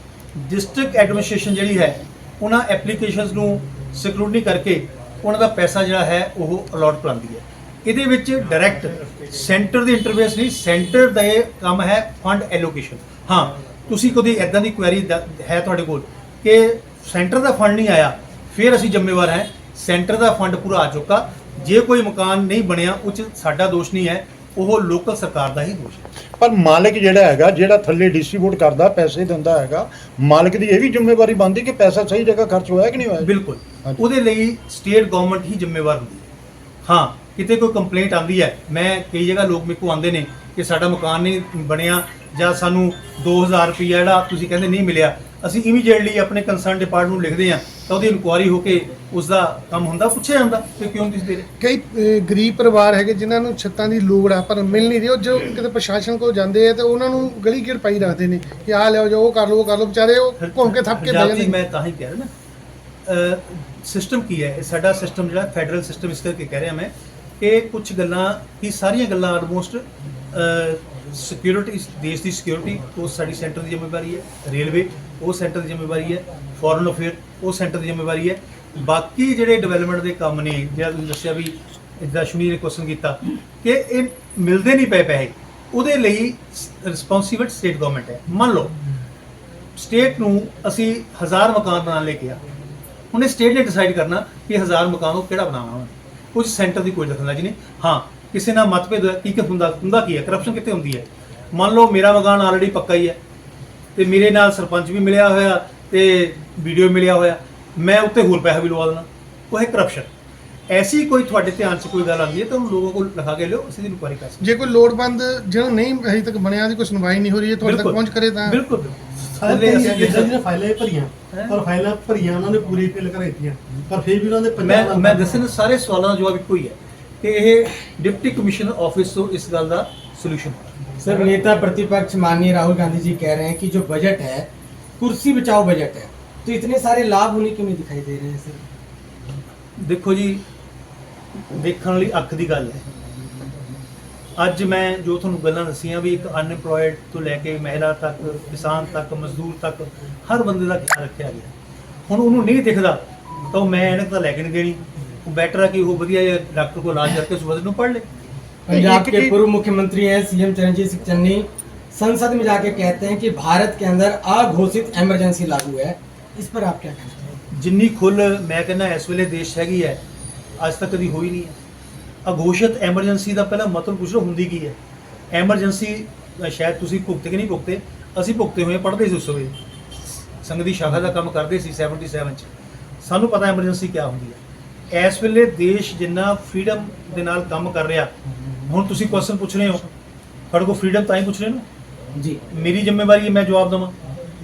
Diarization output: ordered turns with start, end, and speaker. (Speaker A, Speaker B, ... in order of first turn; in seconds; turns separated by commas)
Speaker A: 0.4-26.1, Speaker B: 26.4-33.3, Speaker A: 33.2-36.3, Speaker A: 36.8-51.5, Speaker C: 51.6-61.6, Speaker A: 60.4-62.3, Speaker A: 63.1-88.8, Speaker A: 89.8-92.4, Speaker A: 93.1-103.2, Speaker A: 104.0-110.1, Speaker A: 110.7-114.4, Speaker C: 114.4-118.6, Speaker A: 117.6-120.3, Speaker D: 119.3-125.3, Speaker A: 121.3-121.6, Speaker A: 124.6-131.3, Speaker E: 131.0-134.5, Speaker E: 135.0-138.6, Speaker A: 139.8-140.4, Speaker A: 141.5-142.8, Speaker A: 144.4-151.5, Speaker A: 152.1-158.1, Speaker E: 158.7-167.3, Speaker B: 158.7-159.4, Speaker A: 167.5-170.0, Speaker A: 170.6-171.6, Speaker A: 172.2-174.8, Speaker A: 175.3-179.6, Speaker A: 180.4-182.5, Speaker A: 183.0-184.4, Speaker A: 184.9-188.1, Speaker A: 188.7-189.9, Speaker A: 190.5-191.7, Speaker A: 192.5-193.9